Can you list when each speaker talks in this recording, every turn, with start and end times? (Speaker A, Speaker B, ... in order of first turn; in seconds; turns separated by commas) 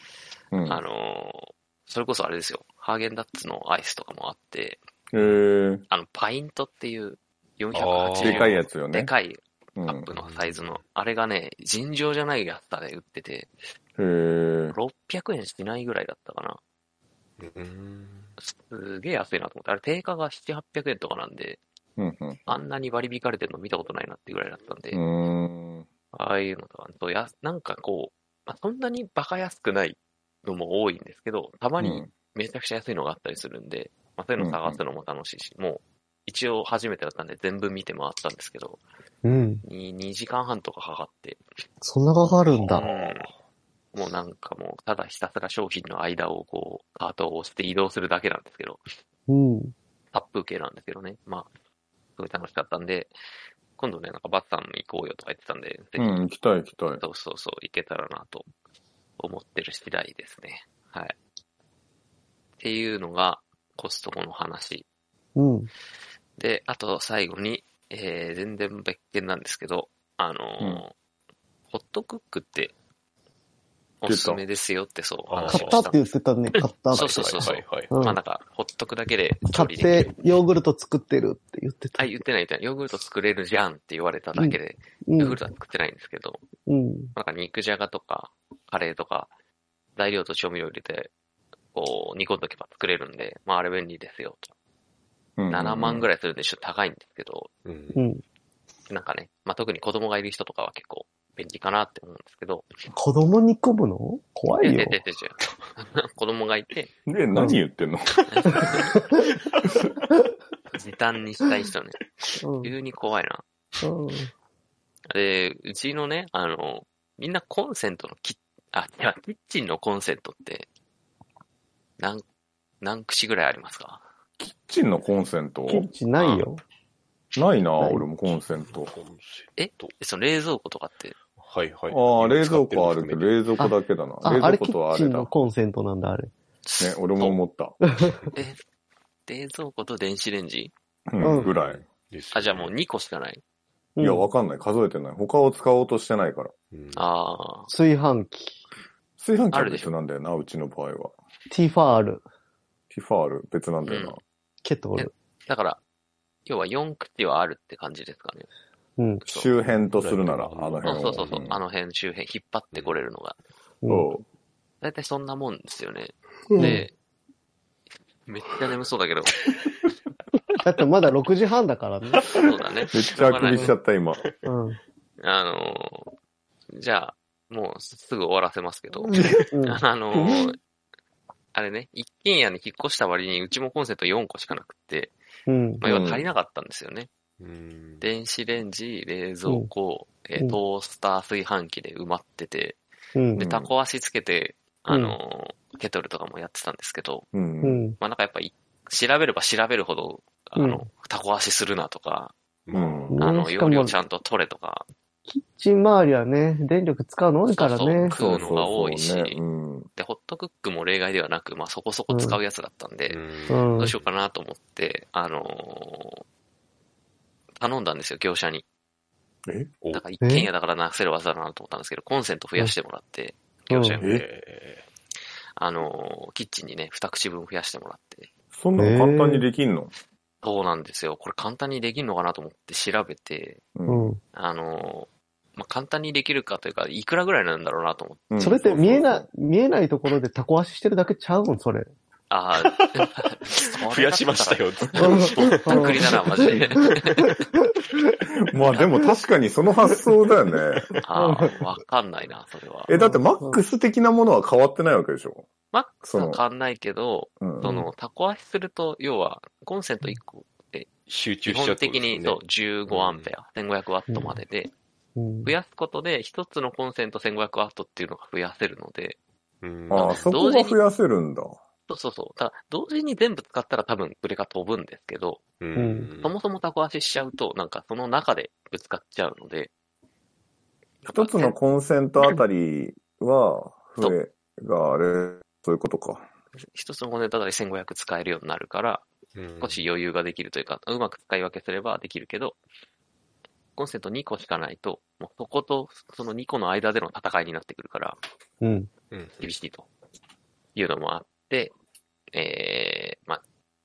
Speaker A: 0.5-0.8, Speaker B: 0.7-4.8, Speaker A: 5.1-5.8, Speaker C: 5.2-5.4, Speaker B: 5.9-13.5, Speaker C: 7.7-8.6, Speaker A: 8.2-9.1, Speaker A: 9.8-10.1, Speaker C: 10.2-10.8, Speaker A: 14.0-14.8, Speaker B: 14.7-16.6, Speaker C: 17.4-18.3, Speaker B: 18.4-21.6, Speaker A: 22.0-22.5, Speaker B: 22.5-25.0, Speaker A: 24.9-25.9, Speaker B: 26.1-38.8, Speaker A: 31.8-32.1, Speaker A: 34.4-34.8, Speaker D: 39.2-39.6, Speaker B: 39.6-41.4, Speaker D: 41.8-42.9, Speaker C: 42.5-43.3, Speaker B: 42.7-43.3, Speaker B: 43.9-48.9, Speaker D: 49.3-49.7, Speaker B: 50.1-51.5, Speaker B: 52.2-53.1, Speaker B: 53.8-56.2, Speaker A: 56.0-57.0, Speaker B: 57.0-58.5, Speaker B: 59.2-61.2, Speaker B: 62.6-64.9, Speaker D: 65.4-65.7, Speaker B: 66.4-70.9, Speaker B: 71.7-72.7, Speaker B: 74.0-76.1, Speaker A: 74.1-74.4, Speaker C: 75.3-75.9, Speaker D: 75.5-78.2, Speaker B: 76.9-80.2, Speaker C: 76.9-77.9, Speaker D: 79.5-82.1, Speaker B: 82.0-86.4, Speaker D: 84.4-85.4, Speaker D: 86.7-87.1, Speaker B: 87.2-89.3, Speaker B: 90.0-91.1, Speaker B: 91.7-94.5, Speaker A: 95.4-96.1, Speaker B: 95.5-97.5, Speaker C: 97.7-98.0, Speaker D: 98.0-98.2, Speaker B: 98.9-102.7, Speaker D: 102.9-105.0, Speaker B: 104.6-106.9, Speaker A: 107.1-108.8, Speaker D: 107.3-107.6, Speaker B: 108.3-108.8, Speaker B: 110.7-112.0, Speaker D: 112.4-112.7, Speaker B: 112.6-113.4, Speaker D: 113.8-114.3, Speaker B: 115.1-120.7, Speaker B: 122.0-122.2, Speaker B: 122.8-124.0, Speaker A: 124.4-125.9, Speaker D: 125.7-126.6, Speaker B: 126.2-126.5, Speaker A: 127.3-128.9, Speaker D: 127.8-128.1, Speaker C: 128.3-129.9, Speaker B: 129.6-131.2, Speaker C: 131.4-133.4, Speaker A: 131.9-135.3, Speaker D: 133.6-136.3, Speaker B: 136.7-137.4, Speaker A: 136.8-137.8, Speaker B: 138.3-138.6, Speaker B: 139.3-140.7, Speaker A: 141.1-141.9, Speaker C: 141.2-142.7, Speaker D: 141.2-141.5, Speaker B: 142.3-143.4, Speaker D: 144.0-144.3, Speaker A: 144.0-146.5, Speaker C: 146.7-147.1, Speaker B: 146.9-147.7, Speaker D: 147.7-148.6, Speaker A: 149.2-151.1, Speaker B: 149.5-149.9, Speaker D: 151.5-152.2, Speaker A: 152.9-154.2, Speaker B: 153.8-154.2, Speaker D: 154.6-155.1, Speaker B: 155.0-155.8, Speaker B: 156.5-158.5, Speaker D: 159.0-159.2, Speaker A: 159.2-161.6, Speaker B: 159.3-159.5, Speaker C: 159.9-161.5, Speaker B: 160.8-163.4, Speaker D: 163.8-164.1, Speaker A: 163.9-164.2, Speaker B: 164.8-166.9, Speaker D: 166.6-166.8, Speaker B: 168.2-169.4, Speaker D: 170.6-172.3, Speaker B: 172.3-173.8, Speaker A: 172.9-174.3, Speaker D: 173.3-173.7, Speaker D: 174.5-174.8, Speaker B: 175.2-176.1, Speaker B: 176.7-180.6, Speaker D: 179.5-179.8, Speaker B: 181.5-185.1, Speaker D: 185.5-185.8, Speaker B: 185.8-187.1, Speaker A: 185.8-186.3, Speaker C: 187.4-188.1, Speaker B: 188.0-192.8, Speaker D: 193.2-193.4, Speaker A: 193.4-193.7, Speaker B: 193.4-197.3, Speaker D: 194.9-195.2, Speaker A: 197.3-197.8, Speaker D: 197.6-198.0, Speaker B: 198.0-202.3, Speaker D: 200.6-200.8, Speaker C: 202.7-203.2, Speaker A: 202.7-203.2, Speaker D: 203.1-204.0, Speaker B: 203.2-204.9, Speaker D: 205.3-208.2, Speaker B: 207.5-209.4, Speaker A: 208.1-209.9, Speaker B: 209.9-213.2, Speaker D: 212.1-212.4, Speaker C: 213.1-214.1, Speaker D: 213.5-213.9, Speaker B: 213.8-216.2, Speaker B: 217.6-218.7, Speaker A: 219.5-219.7, Speaker B: 219.9-224.2, Speaker D: 220.2-220.5, Speaker D: 223.7-224.0, Speaker A: 224.0-224.3, Speaker C: 224.0-224.9, Speaker B: 225.6-228.3, Speaker A: 228.5-229.9, Speaker D: 228.8-229.5, Speaker B: 230.4-233.7, Speaker A: 233.8-234.1, Speaker D: 233.9-234.2, Speaker B: 234.3-238.8, Speaker A: 238.3-239.3, Speaker D: 238.4-241.9, Speaker B: 242.3-247.3, Speaker C: 242.6-246.8, Speaker D: 245.0-246.7, Speaker A: 248.4-250.9, Speaker B: 251.0-252.9, Speaker D: 251.2-251.6, Speaker A: 252.9-255.5, Speaker D: 252.9-253.6, Speaker B: 255.7-260.9, Speaker A: 256.1-256.4, Speaker A: 257.4-257.7, Speaker C: 261.1-263.3, Speaker B: 261.5-264.7, Speaker D: 264.1-264.4, Speaker D: 265.2-265.5, Speaker B: 265.4-269.2, Speaker C: 269.6-270.3, Speaker A: 269.9-271.6, Speaker B: 269.9-270.8, Speaker B: 271.9-275.4, Speaker C: 275.6-276.3, Speaker D: 275.8-276.1, Speaker B: 276.2-279.7, Speaker B: 281.0-281.6, Speaker A: 281.1-286.3, Speaker B: 286.7-289.1, Speaker C: 289.4-289.8, Speaker B: 289.6-292.6, Speaker B: 293.8-298.2, Speaker D: 298.6-298.9, Speaker C: 299.1-299.5, Speaker B: 299.4-299.9, Speaker B: 300.8-301.7, Speaker B: 302.3-303.4